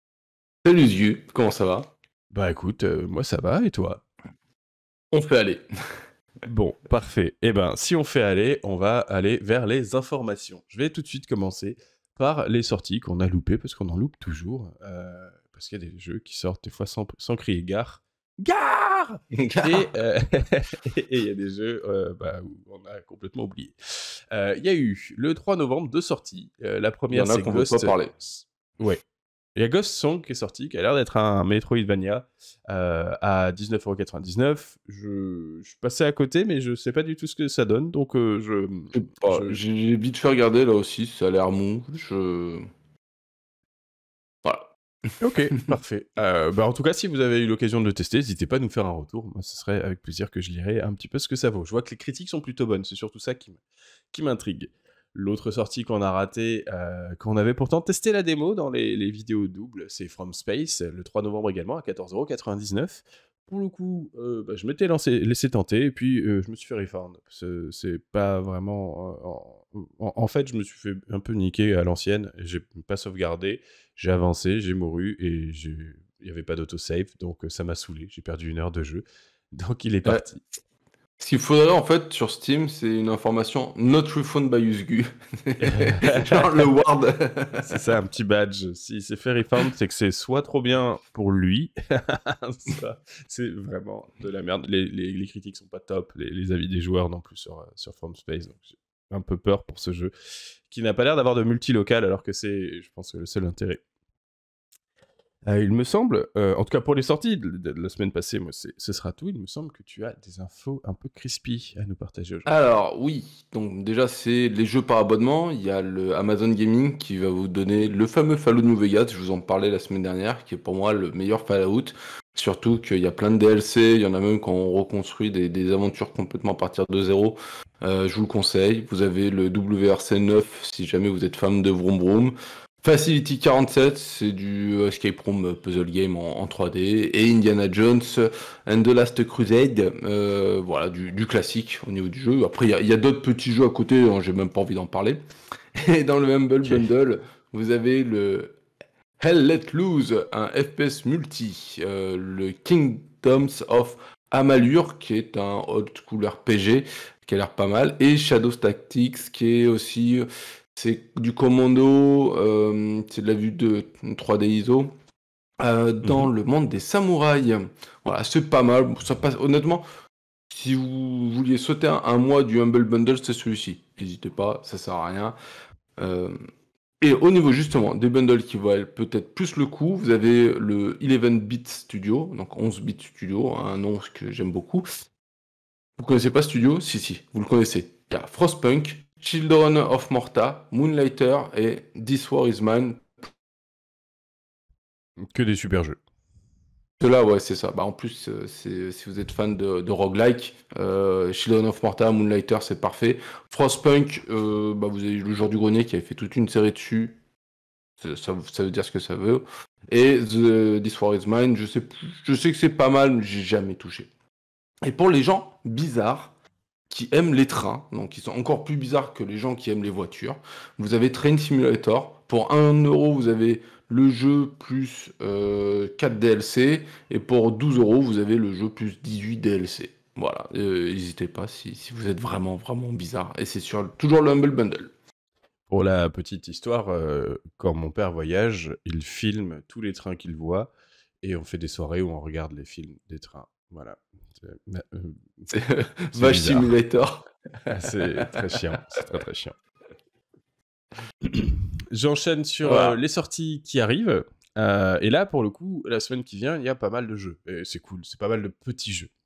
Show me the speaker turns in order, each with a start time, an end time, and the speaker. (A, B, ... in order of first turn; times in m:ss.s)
0:00.6-0:01.9 A
0:02.3-0:04.0 B
0:05.1-0:05.6 A
0:06.5-0:29.0 B
0:19.4-0:19.9 A
0:27.1-0:28.2 A
0:29.6-0:39.6 B
0:38.9-0:42.6 A
0:44.4-0:44.7 A
0:45.2-0:53.6 B
0:54.1-1:20.6 B
1:21.2-1:27.8 A
1:25.6-1:26.5 B
1:27.7-1:40.1 B
1:40.7-1:43.8 B
1:45.5-1:52.5 B
1:52.5-2:25.2 A
2:25.8-2:28.6 A
2:29.2-2:40.2 A
2:40.8-2:44.9 A
2:45.6-2:49.8 A
2:46.0-2:46.3 B
2:50.5-2:55.4 A
2:56.0-2:56.4 A
2:57.0-3:04.8 A
3:06.0-3:13.1 A
3:15.3-3:16.0 B
3:17.0-3:27.2 A
3:28.0-3:34.1 A
3:34.8-3:36.3 A
3:36.9-3:54.9 A
3:55.7-4:00.7 B
4:01.2-4:05.5 B
4:05.5-4:07.3 A
4:06.1-4:06.7 B
4:07.7-4:09.6 B
4:11.2-4:19.1 B
4:12.6-4:13.0 A